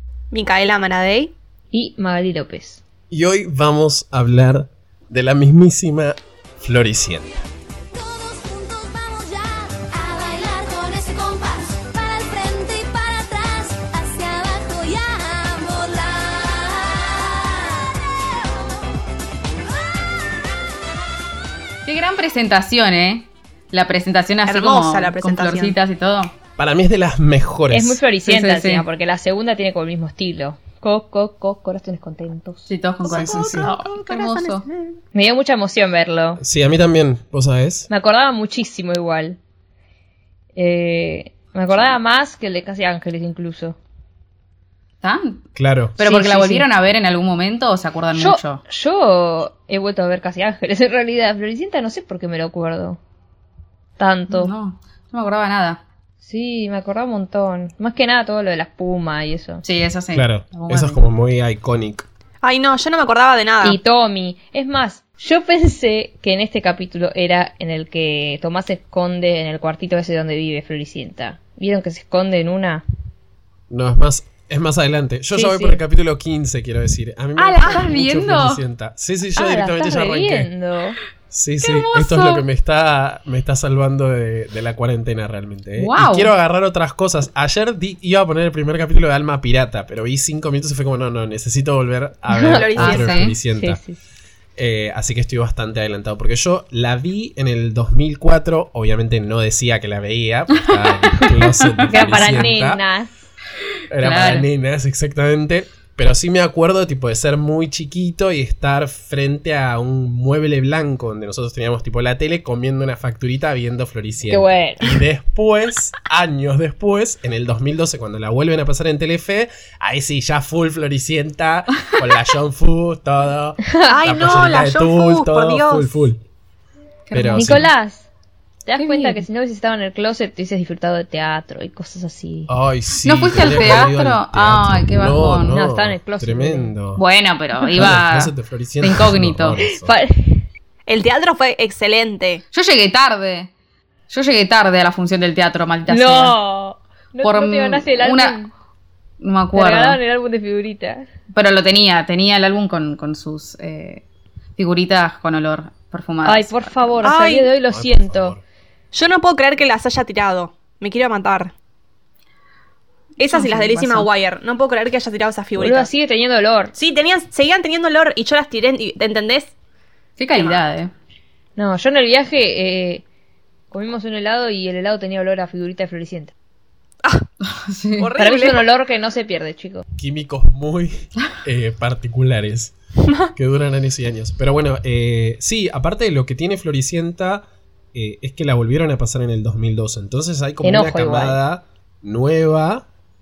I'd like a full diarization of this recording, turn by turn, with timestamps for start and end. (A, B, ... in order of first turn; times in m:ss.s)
0:00.3-0:01.3 A
0:01.7-0:02.8 B
0:03.1-0:07.3 C
0:07.9-0:18.5 D
0:21.8-0:26.3 E
0:24.4-0:25.8 A
0:26.6-0:28.0 C
0:27.7-0:32.6 B
0:28.2-0:28.8 E
0:32.7-0:34.6 E
0:33.0-0:35.0 A
0:33.1-0:33.7 C
0:35.1-0:36.4 B
0:36.4-0:37.9 C
0:37.9-0:39.4 B
0:40.6-0:43.8 B
0:45.0-0:45.4 E
0:45.6-0:46.0 C
0:46.0-0:48.6 E
0:46.0-0:46.7 B
0:48.1-0:53.0 B
0:54.0-0:54.5 B
0:54.3-0:55.8 E
0:56.2-0:59.6 B
0:59.6-1:01.0 E
1:00.1-1:02.0 C
1:02.4-1:03.8 A
1:03.6-1:12.8 B
1:13.7-1:20.5 C
1:15.3-1:15.8 B
1:17.4-1:18.6 E
1:19.4-1:21.0 B
1:21.3-1:33.8 C
1:21.6-1:22.4 E
1:25.8-1:26.3 E
1:32.3-1:32.9 B
1:32.4-1:33.2 A
1:32.8-1:33.3 E
1:33.6-1:34.0 B
1:34.6-1:42.8 C
1:41.8-1:43.1 B
1:41.9-1:42.4 E
1:43.9-2:06.2 C
1:44.0-1:44.5 E
1:54.3-1:55.0 B
2:03.8-2:05.9 A
2:07.1-2:07.7 E
2:07.1-2:07.7 C
2:07.3-2:08.0 B
2:08.6-2:12.5 B
2:08.8-2:09.2 E
2:12.5-2:17.0 C
2:13.0-2:15.6 E
2:15.5-2:16.7 B
2:17.0-2:19.6 E
2:17.6-2:17.9 B
2:17.8-2:20.0 C
2:19.6-2:20.5 B
2:20.9-2:22.4 A
2:22.5-2:23.5 E
2:24.1-2:26.4 E
2:25.9-2:28.5 B
2:27.2-2:28.4 E
2:29.2-2:30.0 E
2:29.5-2:31.1 B
2:31.3-2:34.0 E
2:34.6-2:37.0 E
2:36.2-2:38.3 B
2:37.0-2:37.5 A
2:37.7-2:38.4 C
2:38.9-2:41.5 A
2:43.2-2:45.9 A
2:43.3-2:44.1 E
2:45.6-2:46.7 B
2:46.8-2:49.5 A
2:50.2-2:50.9 E
2:50.3-2:50.6 A
2:51.6-2:53.0 B
2:53.7-2:56.3 B
2:57.4-2:58.1 E
2:58.0-2:58.6 A
2:58.2-2:59.8 B
3:00.0-3:02.7 C
3:03.3-3:12.8 C
3:10.6-3:11.4 B